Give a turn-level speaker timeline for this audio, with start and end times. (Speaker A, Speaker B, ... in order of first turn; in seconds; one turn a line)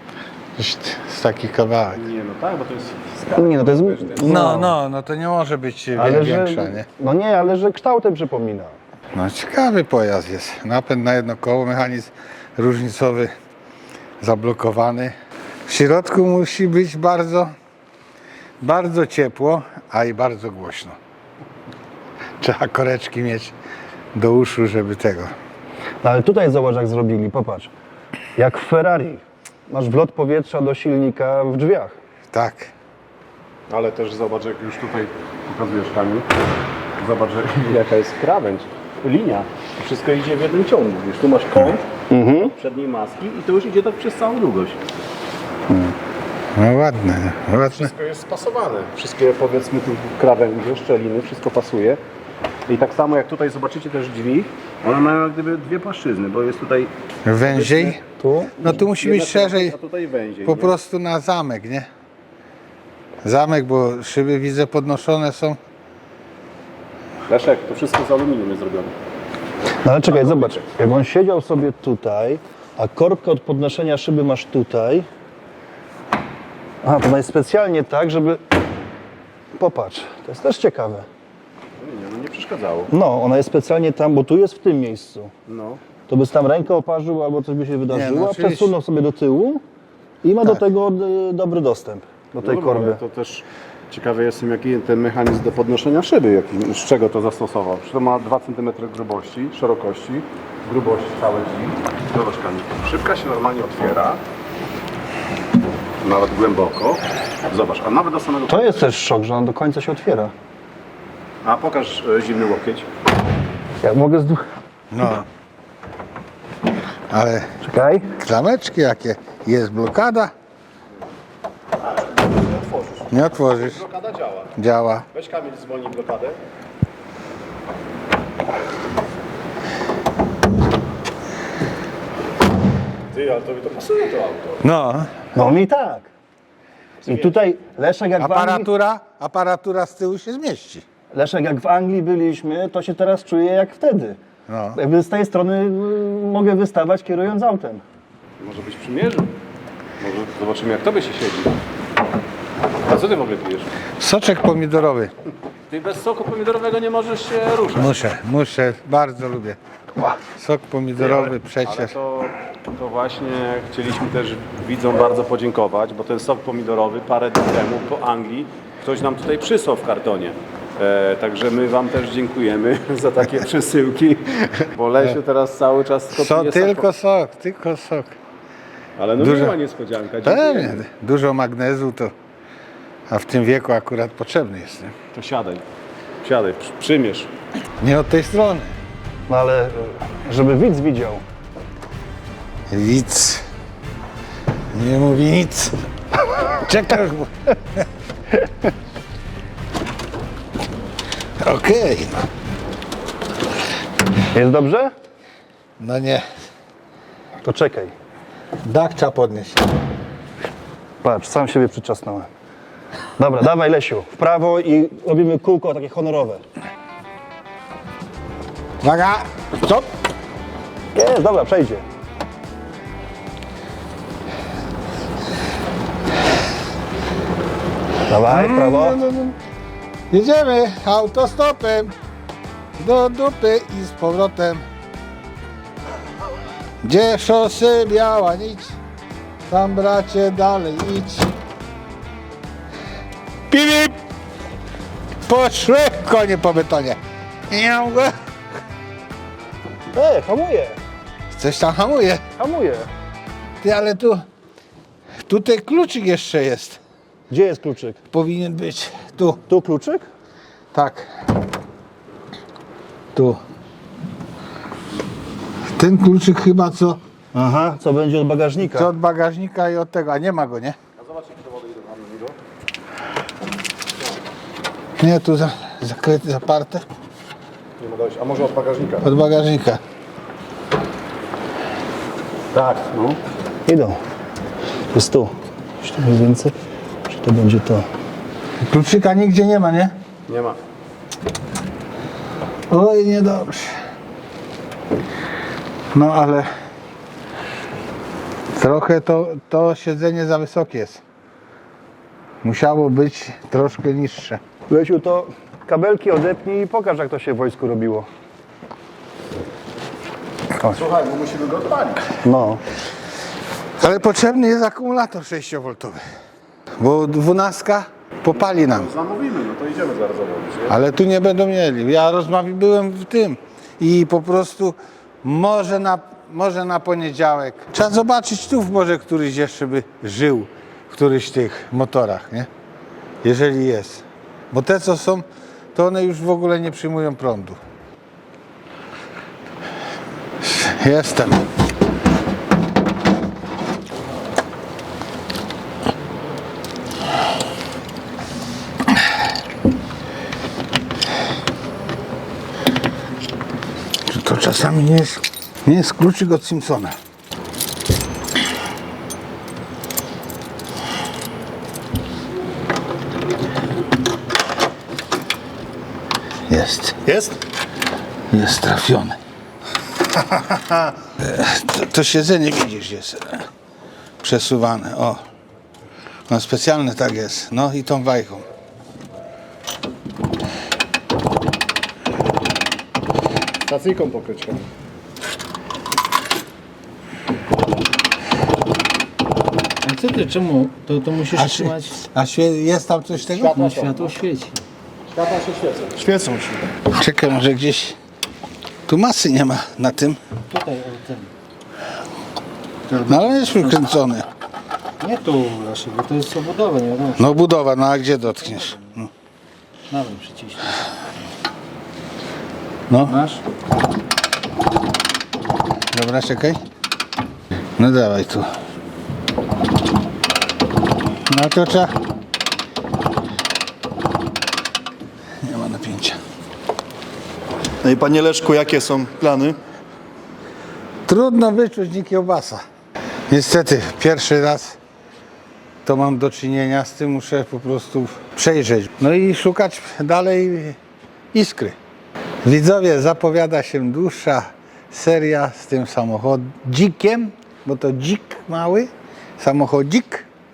Speaker A: 0.6-2.0
Speaker B: 1.9-4.6
Speaker C: 3.4-4.8
Speaker A: 4.2-6.9
Speaker C: 6.0-8.8
Speaker A: 9.2-13.3
Speaker A: 14.2-15.1
Speaker A: 15.7-17.5
Speaker A: 18.6-21.0
Speaker A: 22.4-23.5
Speaker A: 24.1-25.3
Speaker C: 26.0-27.7
Speaker C: 28.4-32.0
Speaker A: 32.3-32.7
Speaker B: 33.7-36.3
Speaker B: 37.0-41.9
Speaker C: 42.1-42.5
Speaker B: 42.4-44.8
Speaker A: 46.6-47.9
Speaker B: 47.7-52.0
Speaker B: 52.7-58.0
Speaker A: 57.3-58.0
Speaker C: 58.2-58.9
Speaker A: 58.6-59.8
Speaker B: 59.0-60.8
Speaker A: 60.5-61.9
Speaker A: 63.2-65.6
Speaker B: 67.3-68.9
Speaker C: 69.8-75.1
Speaker B: 70.1-70.7
Speaker C: 76.8-78.4
Speaker C: 79.5-81.1
Speaker B: 81.8-82.9
Speaker C: 82.9-85.3
Speaker B: 85.5-85.8
Speaker C: 86.1-89.6
Speaker A: 87.9-88.7
Speaker C: 90.2-93.0
Speaker B: 92.4-104.2
Speaker B: 106.0-108.9
Speaker C: 108.5-110.3
Speaker B: 111.4-112.9
Speaker C: 113.8-114.5
Speaker A: 114.9-115.3
Speaker A: 117.1-117.5
Speaker C: 117.6-118.1
Speaker A: 118.2-120.3
Speaker B: 122.1-124.6
Speaker A: 123.1-123.8
Speaker A: 124.6-125.0
Speaker B: 125.1-126.4
Speaker B: 133.1-134.6
Speaker A: 134.6-135.1
Speaker C: 135.3-136.1
Speaker B: 137.0-137.4
Speaker C: 137.1-138.7
Speaker A: 138.2-140.8
Speaker C: 141.1-144.2
Speaker A: 144.5-144.8
Speaker C: 144.8-147.8
Speaker B: 148.4-149.3
Speaker B: 150.0-151.6
Speaker B: 152.8-153.7
Speaker A: 154.0-155.1
Speaker B: 155.7-158.0
Speaker A: 157.8-161.9
Speaker B: 161.0-176.9
Speaker A: 176.1-178.2
Speaker B: 179.0-180.8
Speaker A: 179.2-179.6
Speaker A: 180.2-182.1
Speaker A: 183.1-184.9
Speaker B: 185.1-185.6
Speaker B: 186.2-187.3
Speaker A: 187.8-188.7
Speaker C: 189.3-191.2
Speaker A: 192.7-193.4
Speaker A: 194.7-195.7
Speaker A: 196.5-197.8
Speaker A: 201.4-202.1
Speaker C: 204.3-204.9
Speaker A: 205.8-206.2
Speaker C: 207.4-207.9
Speaker A: 208.7-209.6
Speaker C: 211.0-212.3
Speaker C: 213.2-216.4
Speaker A: 218.8-219.9
Speaker C: 220.9-221.8
Speaker C: 228.1-229.0
Speaker A: 228.3-229.4
Speaker A: 230.1-231.9
Speaker A: 232.8-234.6
Speaker A: 236.8-238.8
Speaker A: 239.5-241.3
Speaker A: 243.5-243.9
Speaker A: 245.3-247.0
Speaker A: 247.5-248.2
Speaker C: 249.9-250.8
Speaker A: 251.3-252.2
Speaker C: 252.4-252.9
Speaker A: 253.6-254.2
Speaker A: 255.3-256.8
Speaker C: 257.3-258.0
Speaker A: 258.1-259.4
Speaker C: 259.5-260.1
Speaker A: 260.7-261.1
Speaker A: 265.8-267.0
Speaker C: 267.4-268.9
Speaker A: 268.6-270.8
Speaker B: 271.0-272.4
Speaker A: 275.0-276.8
Speaker B: 277.8-279.1
Speaker A: 279.0-279.8
Speaker B: 282.5-283.2
Speaker C: 283.7-284.0
Speaker C: 284.9-287.9
Speaker A: 288.6-289.9
Speaker B: 290.3-290.6
Speaker A: 292.7-293.7
Speaker A: 295.9-296.5
Speaker A: 298.6-301.0
Speaker A: 302.4-304.4
Speaker C: 304.7-308.1
Speaker B: 310.7-312.1
Speaker C: 312.2-312.6
Speaker A: 313.8-316.0
Speaker A: 316.8-318.9
Speaker B: 318.3-320.8
Speaker A: 320.7-332.5
Speaker A: 333.2-337.6
Speaker A: 340.4-341.4
Speaker A: 354.1-357.0
Speaker A: 366.5-367.3
Speaker A: 368.3-369.2
Speaker A: 371.2-373.4
Speaker A: 374.2-375.2
Speaker A: 376.3-378.5
Speaker B: 383.7-384.7
Speaker D: 389.8-392.0
Speaker A: 391.3-393.6
Speaker B: 393.1-394.2
Speaker D: 393.5-394.6
Speaker B: 395.1-396.6
Speaker A: 396.9-398.0
Speaker A: 398.9-400.2
Speaker D: 400.5-401.3
Speaker D: 402.9-404.0
Speaker A: 403.1-404.3
Speaker D: 405.0-407.5
Speaker A: 407.2-409.1
Speaker D: 408.3-408.8
Speaker D: 409.9-410.8
Speaker A: 412.9-413.2
Speaker D: 413.1-413.4
Speaker A: 415.9-416.6
Speaker A: 417.8-418.5
Speaker A: 421.3-421.9
Speaker A: 425.4-426.2
Speaker C: 427.8-429.6
Speaker A: 431.1-432.6
Speaker A: 433.3-434.8
Speaker A: 435.9-440.8
Speaker A: 441.3-441.8
Speaker A: 442.4-450.3